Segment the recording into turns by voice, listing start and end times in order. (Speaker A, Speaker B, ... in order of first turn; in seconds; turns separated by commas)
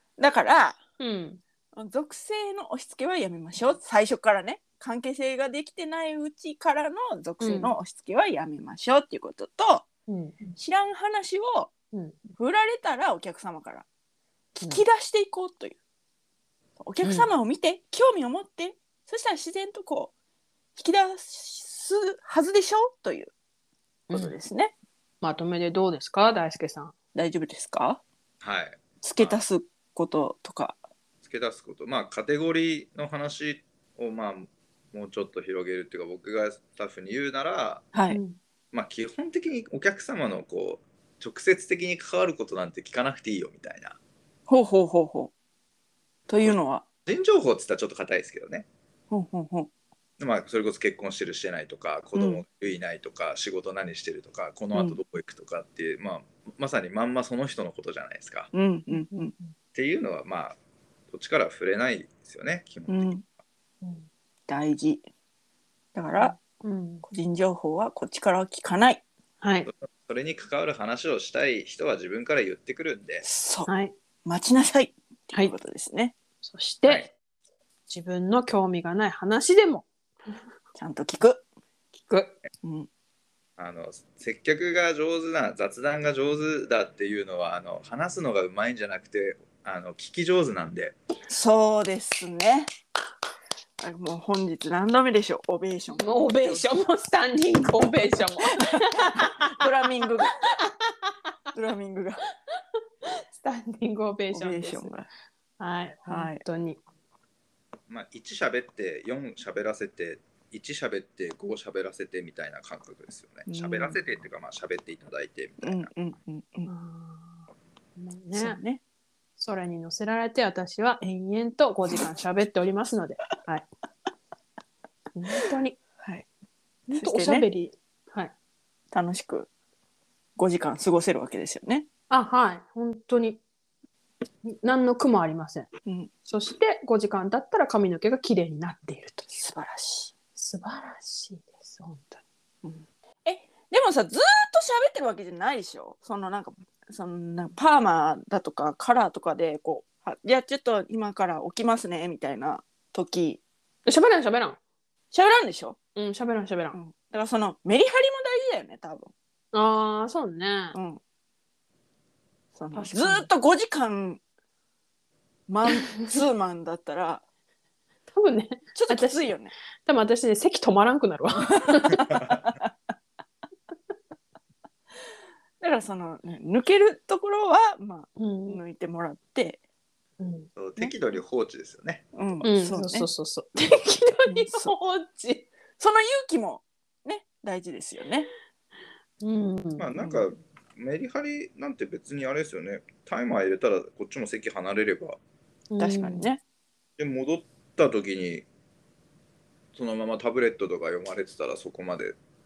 Speaker A: 0.2-0.8, Speaker B: 1.0-1.4, Speaker A: 1.8-9.9, Speaker B: 7.4-7.8, Speaker B: 10.1-10.4, Speaker A: 10.6-11.7, Speaker A: 12.4-13.8, Speaker B: 14.6-14.8, Speaker A: 14.7-15.8, Speaker A: 16.8-20.1, Speaker B: 17.0-17.3, Speaker A: 20.8-23.3, Speaker A: 24.1-24.7, Speaker B: 25.2-26.9, Speaker A: 27.1-28.0, Speaker C: 28.4-29.4, Speaker A: 29.0-30.8, Speaker C: 31.2-37.9, Speaker A: 37.9-38.2, Speaker B: 38.1-38.4, Speaker C: 38.7-44.0, Speaker A: 44.5-45.3, Speaker A: 46.3-46.9, Speaker C: 46.5-48.7, Speaker A: 49.1-49.7, Speaker C: 50.2-58.5, Speaker A: 52.1-52.4, Speaker A: 54.7-55.0, Speaker A: 58.5-59.3, Speaker C: 59.8-60.6, Speaker C: 61.1-63.1, Speaker A: 62.9-63.2, Speaker B: 63.8-64.1, Speaker A: 64.5-65.0, Speaker A: 65.9-66.4, Speaker B: 66.2-67.0, Speaker A: 67.0-69.0, Speaker B: 69.4-69.7, Speaker C: 69.7-73.2, Speaker A: 73.2-73.7, Speaker B: 73.7-73.9, Speaker A: 74.2-76.2, Speaker B: 76.4-77.1, Speaker B: 77.9-79.9, Speaker A: 80.8-81.4, Speaker B: 82.0-82.3, Speaker A: 82.6-82.9, Speaker C: 83.6-91.0, Speaker A: 91.3-92.7, Speaker A: 93.8-96.7, Speaker B: 96.0-100.1, Speaker A: 98.5-100.4, Speaker A: 101.5-102.2, Speaker B: 103.0-104.9, Speaker A: 104.3-105.1, Speaker B: 105.6-106.8, Speaker A: 106.1-106.4, Speaker C: 107.9-115.9, Speaker A: 113.5-114.0, Speaker A: 115.6-116.7, Speaker B: 116.7-118.6, Speaker A: 118.3-118.8, Speaker B: 119.4-123.7, Speaker B: 125.2-125.8, Speaker A: 126.0-126.3, Speaker A: 126.9-127.5, Speaker B: 126.9-128.3, Speaker A: 128.9-129.5, Speaker A: 130.4-131.9, Speaker B: 132.1-133.4, Speaker B: 134.4-135.7, Speaker A: 135.8-136.1, Speaker B: 136.3-139.3, Speaker A: 139.3-140.1, Speaker B: 140.4-142.2, Speaker A: 142.6-153.4, Speaker B: 153.9-154.6, Speaker A: 155.1-155.8, Speaker B: 155.9-156.8, Speaker A: 156.7-159.1, Speaker B: 159.5-160.8, Speaker A: 160.7-161.0, Speaker A: 162.6-164.2, Speaker B: 162.7-163.3, Speaker A: 165.5-167.2, Speaker B: 168.1-172.1, Speaker A: 168.8-169.5, Speaker A: 171.5-172.7, Speaker A: 175.6-179.6, Speaker B: 178.2-178.6, Speaker B: 180.2-180.5, Speaker C: 180.6-182.0, Speaker A: 182.1-183.1, Speaker B: 182.4-185.5, Speaker A: 184.3-184.7, Speaker A: 185.8-188.3, Speaker B: 189.2-189.9, Speaker C: 189.8-195.2, Speaker A: 190.0-190.2, Speaker B: 195.7-196.3, Speaker A: 195.8-196.4, Speaker C: 197.0-198.5, Speaker C: 199.7-202.2